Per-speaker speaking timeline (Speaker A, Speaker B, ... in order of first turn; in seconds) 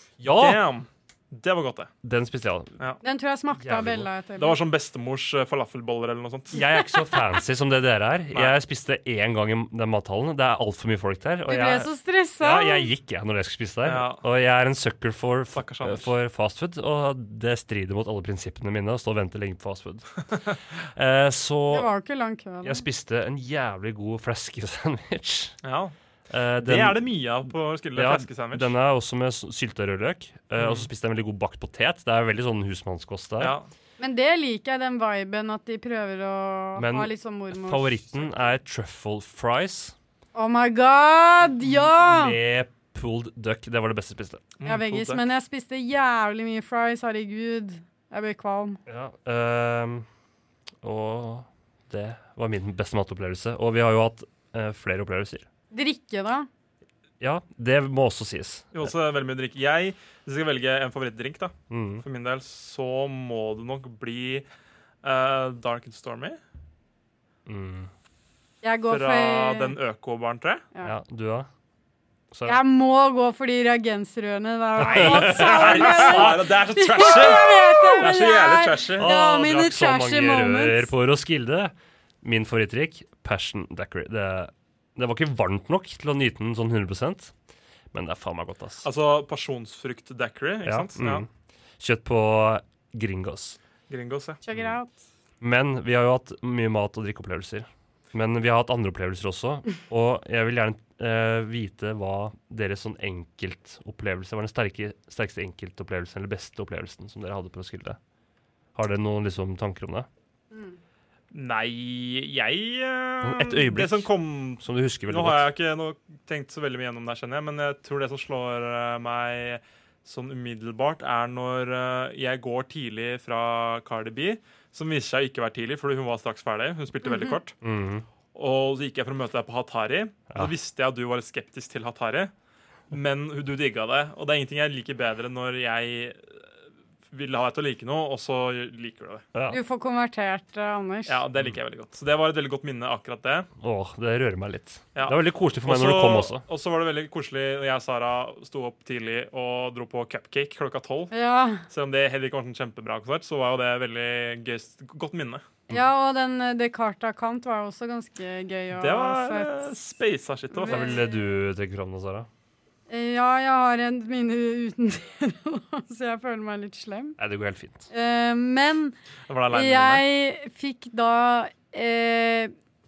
Speaker A: 0.2-0.6, 2.0-2.7, 3.5-4.1, 6.5-11.9, 12.4-21.9, 22.6-25.6, 26.3-27.0, 27.9-33.5, 36.8-39.9, 41.7-44.5, 48.9-50.1, 50.8-55.5, 57.2-58.9, 61.7-62.0, 67.5-67.9, 70.8-71.5, 72.3-72.6, 74.8-77.2, 79.0-87.3, 87.9-88.9, 90.6-91.3, 91.8-93.6, 95.4-108.0, 108.7-110.1, 113.2-115.5, 127.6-128.1, 139.3-139.6, 143.6-146.4, 160.7-162.3, 167.2-167.9
Speaker B: 0.3-1.9, 4.4-6.6, 13.8-14.2, 15.5-16.1, 25.6-25.9, 26.6-28.7, 30.6-30.9, 33.4-33.7, 44.6-45.2, 58.7-64.5, 65.0-66.4, 68.9-70.7, 74.8-79.1, 88.8-91.2, 93.9-94.4, 111.3-127.6, 128.3-132.3, 132.9-136.4, 137.1-139.2, 141.1-143.5, 144.9-151.1, 151.7-155.4, 158.8-160.9, 169.3-170.1
Speaker C: 3.0-4.6, 11.5-12.9, 21.7-22.8, 34.0-38.0, 40.3-42.4, 44.6-48.8, 55.7-56.5, 68.6-69.8, 72.5-80.9, 94.4-95.0, 127.0-127.3, 139.5-141.2, 151.1-151.6, 155.7-159.7, 160.5-161.2, 162.9-167.2, 167.9-168.9, 169.5-172.5